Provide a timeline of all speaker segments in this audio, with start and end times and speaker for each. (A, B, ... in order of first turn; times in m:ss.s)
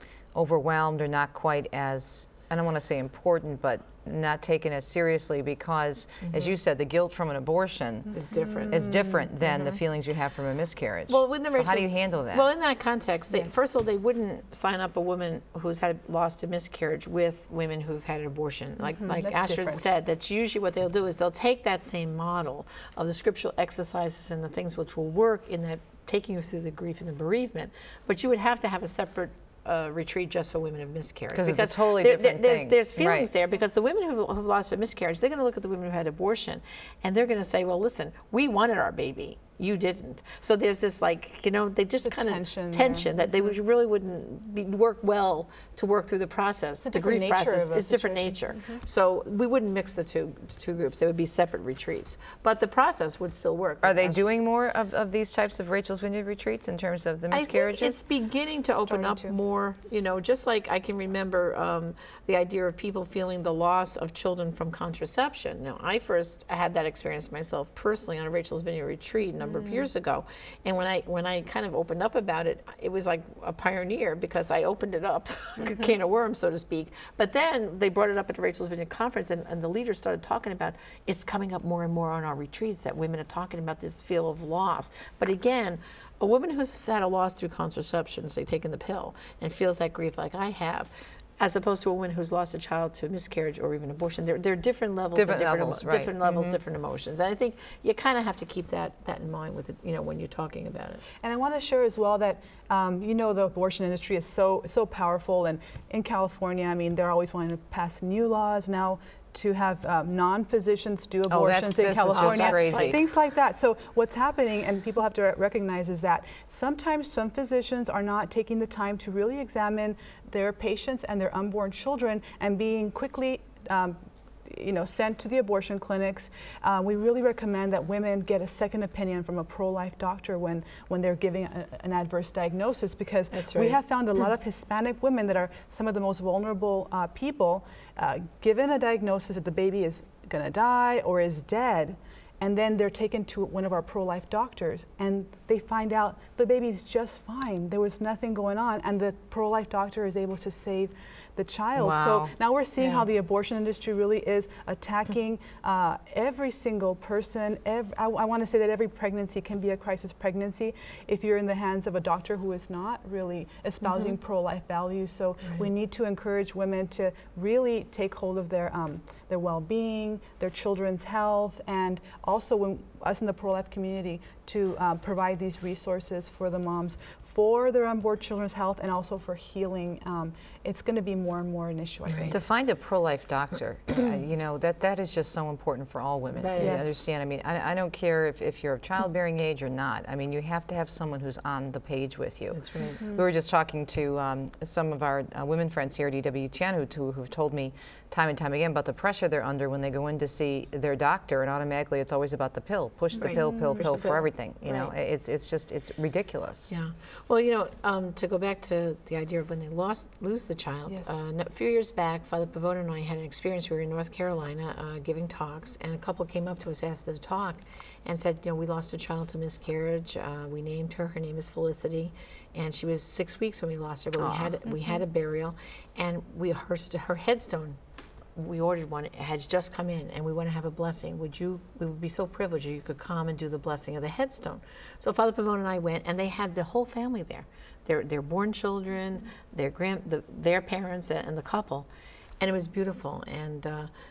0:00.3-0:08.1 A
0:06.2-0:06.5 B
0:08.1-0:09.8 B
0:08.3-0:09.2 C
0:08.7-0:12.4 A
0:11.1-0:54.2 B
0:18.8-0:19.9 C
0:31.3-0:33.3 A
0:42.0-0:43.1 C
0:46.8-0:48.7 C
0:53.8-0:58.0 A
0:57.3-1:41.0 B
0:58.8-0:59.3 C
1:35.2-1:36.6 A
1:41.2-3:02.4 C
1:51.3-1:53.0 A
1:52.0-1:53.0 B
2:13.3-2:13.8 B
2:31.8-2:32.3 A
2:32.8-2:33.1 B
2:43.9-2:44.1 B
3:02.3-3:26.7 A
3:06.3-3:07.0 B
3:06.6-3:07.0 C
3:12.5-3:13.0 B
3:12.8-3:13.2 C
3:23.1-3:24.1 C
3:23.2-3:24.9 B
3:26.7-3:47.8 B
3:30.9-3:31.2 C
3:44.2-3:44.6 A
3:48.4-4:01.9 B
4:02.4-4:03.9 B